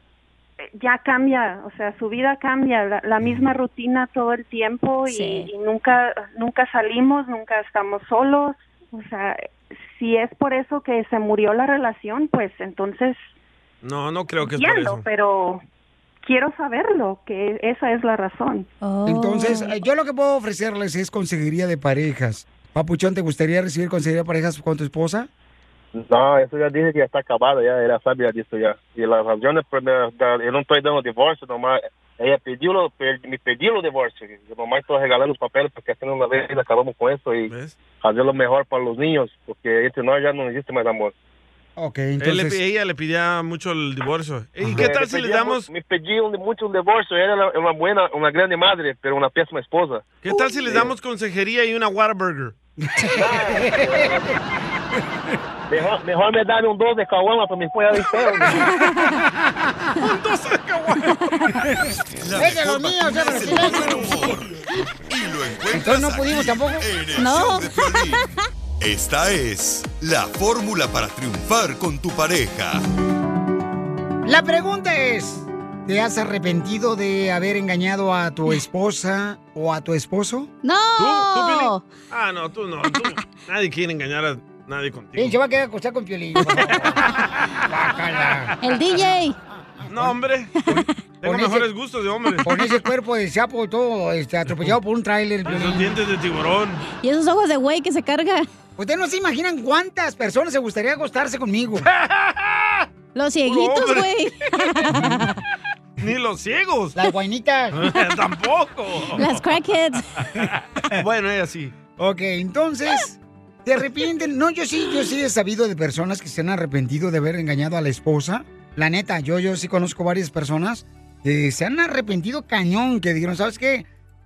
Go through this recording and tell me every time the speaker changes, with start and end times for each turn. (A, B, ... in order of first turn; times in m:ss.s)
0:00.7-0:13.3 A
0:05.1-0:05.5 B
0:13.8-0:15.0 C
0:14.4-0:15.6 A
0:16.2-0:18.7 A
0:18.8-0:19.7 B
0:19.0-0:25.3 D
0:25.9-0:41.1 E
0:37.5-0:37.8 C
0:41.8-0:42.6 D
0:42.2-0:45.7 C
0:44.6-0:44.9 D
0:44.8-0:50.2 E
0:50.2-0:52.5 C
0:52.8-0:54.3 D
0:53.2-0:54.3 E
0:55.7-0:58.6 E
0:58.6-0:59.1 B
0:59.0-0:59.9 D
1:00.0-1:01.2 C
1:02.2-1:04.5 F
1:02.3-1:04.2 D
1:05.1-1:08.3 F
1:05.7-1:06.8 D
1:07.2-1:08.2 B
1:08.8-1:12.8 F
1:14.2-1:20.5 D
1:20.6-1:21.8 B
1:21.0-1:25.4 C
1:25.2-1:27.0 D
1:26.6-1:27.6 C
1:27.7-1:28.5 D
1:28.1-1:28.5 C
1:28.6-1:29.4 B
1:29.9-1:30.5 C
1:30.7-1:31.7 D
1:31.2-1:32.5 C
1:32.4-1:35.9 D
1:34.5-1:34.7 C
1:35.4-1:36.8 C
1:36.9-1:38.5 B
1:38.8-1:41.9 D
1:41.9-1:42.8 C
1:43.1-1:45.3 B
1:43.4-1:44.1 C
1:44.9-1:45.2 D
1:46.0-1:47.0 C
1:46.9-1:47.8 D
1:47.7-1:49.4 C
1:49.2-1:50.1 B
1:50.2-1:51.7 C
1:52.0-2:03.9 D